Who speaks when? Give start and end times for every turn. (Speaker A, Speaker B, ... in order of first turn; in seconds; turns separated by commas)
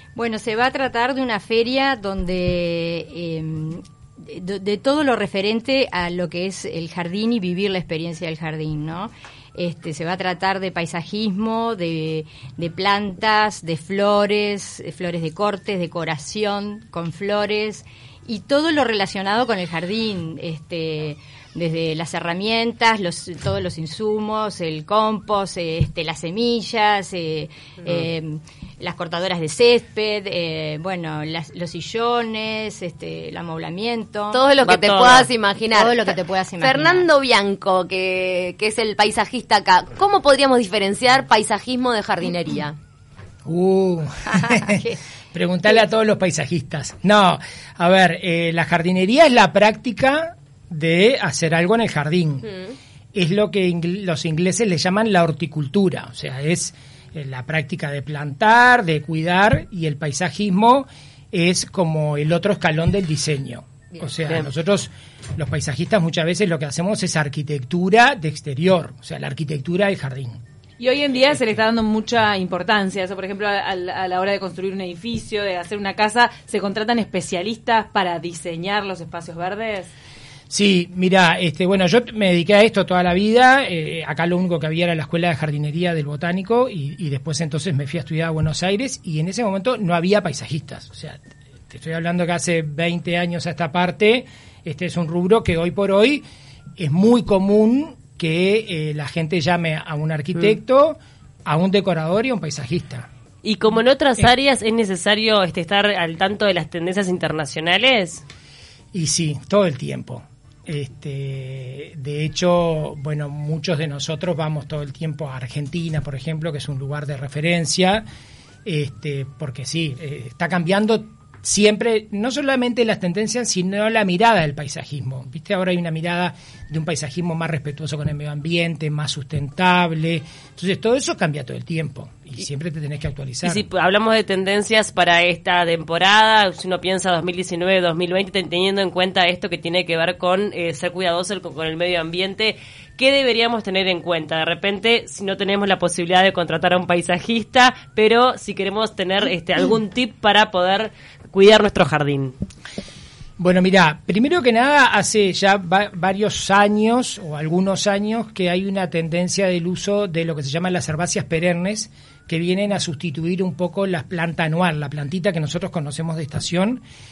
Speaker A: 0.1-34.4, Speaker B: 34.3-42.8, Speaker C: 34.6-35.3, Speaker A: 35.7-37.1, Speaker D: 43.5-52.5, Speaker A: 44.3-45.0, Speaker D: 53.1-70.4, Speaker E: 70.8-79.9, Speaker D: 80.5-96.2, Speaker D: 96.8-103.1, Speaker C: 103.4-108.2, Speaker D: 108.9-118.0, Speaker D: 118.6-133.6, Speaker C: 133.4-152.3, Speaker D: 153.4-166.8